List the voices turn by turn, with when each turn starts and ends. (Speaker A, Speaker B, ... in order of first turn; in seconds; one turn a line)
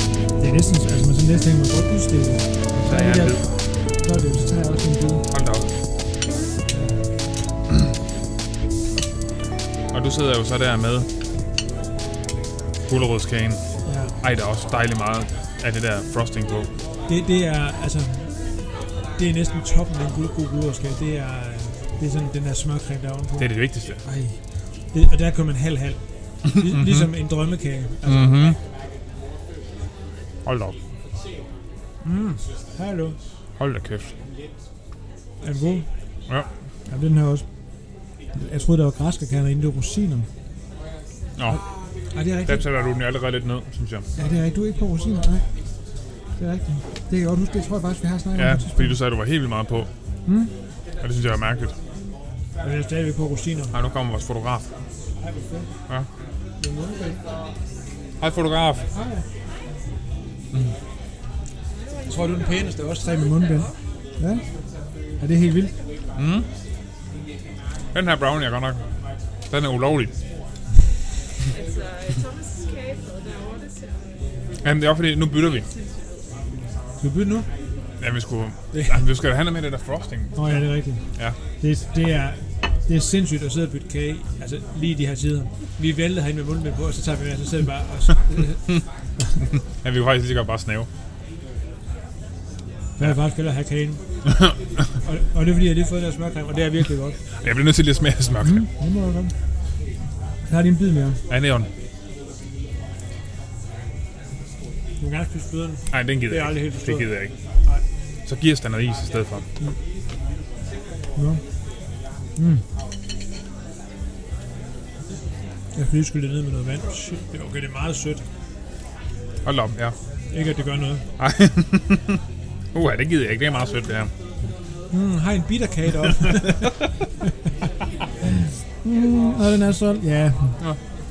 Speaker A: 0.4-5.2
Speaker B: 2.9-3.5
Speaker B: 5.3-5.7
Speaker A: 6.7-7.0
Speaker B: 9.9-11.1
Speaker B: 12.8-13.6
Speaker A: 13.8-14.1
Speaker B: 14.2-16.7
Speaker A: 17.1-24.4
Speaker B: 23.4-24.0
Speaker A: 24.9-28.6
Speaker B: 26.7-27.1
Speaker B: 28.1-28.6
Speaker B: 30.4-30.8
Speaker A: 32.0-33.2
Speaker B: 33.6-34.1
Speaker A: 35.4-35.9
Speaker A: 36.9-37.5
Speaker A: 38.3-40.3
Speaker B: 41.4-41.6
Speaker A: 41.5-42.6
Speaker B: 42.5-44.1
Speaker A: 44.1-45.5
Speaker A: 46.4-49.0
Speaker B: 48.3-49.9
Speaker A: 50.2-50.5
Speaker B: 51.0-51.8
Speaker A: 52.6-53.7
Speaker B: 53.7-54.7
Speaker A: 55.2-55.7
Speaker A: 56.6-57.2
Speaker B: 58.2-58.9
Speaker A: 58.9-59.2
Speaker C: 61.7-63.8
Speaker A: 62.1-64.4
Speaker A: 65.2-65.7
Speaker B: 66.1-66.5
Speaker B: 67.9-68.8
Speaker B: 69.5-70.1
Speaker C: 71.5-74.4
Speaker B: 74.6-75.7
Speaker C: 75.5-76.4
Speaker A: 77.0-77.5
Speaker B: 78.0-80.6
Speaker A: 78.7-79.0
Speaker A: 80.3-81.1
Speaker A: 81.6-89.4
Speaker B: 89.5-90.9
Speaker A: 93.0-94.0
Speaker B: 94.3-94.9
Speaker A: 95.0-97.2
Speaker B: 97.4-98.7
Speaker A: 98.4-99.4
Speaker A: 100.4-101.2
Speaker B: 101.3-101.7
Speaker A: 105.0-107.1
Speaker B: 105.9-107.3
Speaker B: 108.2-109.5
Speaker A: 111.1-111.4
Speaker A: 112.3-112.6
Speaker A: 115.7-118.2
Speaker B: 119.4-120.0
Speaker A: 120.3-121.1
Speaker B: 121.2-122.2
Speaker B: 122.7-124.1
Speaker A: 124.9-127.3
Speaker A: 128.2-130.7